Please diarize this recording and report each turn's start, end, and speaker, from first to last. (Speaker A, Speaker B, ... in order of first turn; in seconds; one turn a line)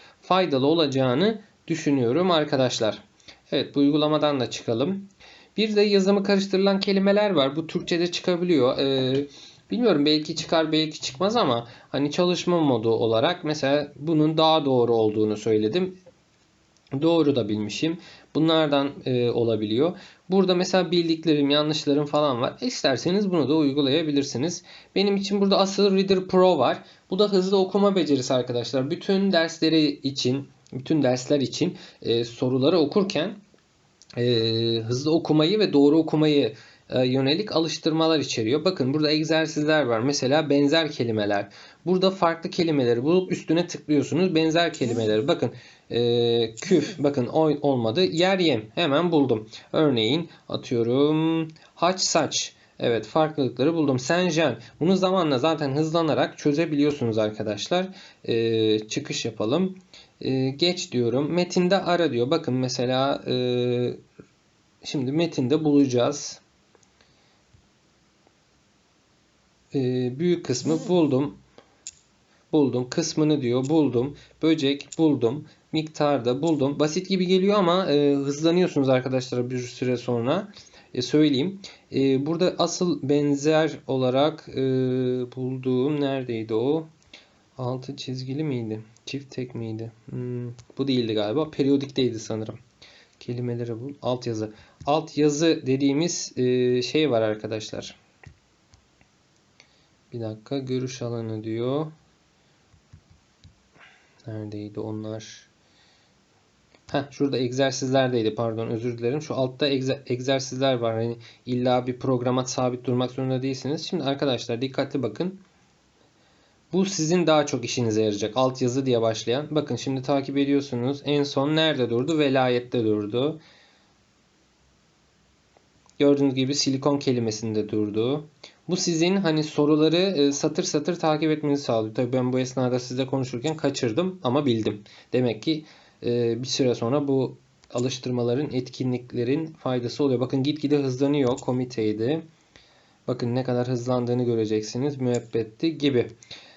Speaker A: 0.2-16.0
Speaker A: 17.0-33.4
Speaker A: 34.2-64.0
Speaker A: 64.8-66.4
Speaker A: 69.7-71.4
Speaker A: 72.5-86.9
Speaker A: 87.6-92.6
Speaker A: 93.2-98.0
Speaker A: 100.1-101.9
Speaker A: 104.2-105.5
Speaker A: 106.9-115.4
Speaker A: 116.7-123.4
Speaker A: 126.0-142.2
Speaker A: 143.1-146.1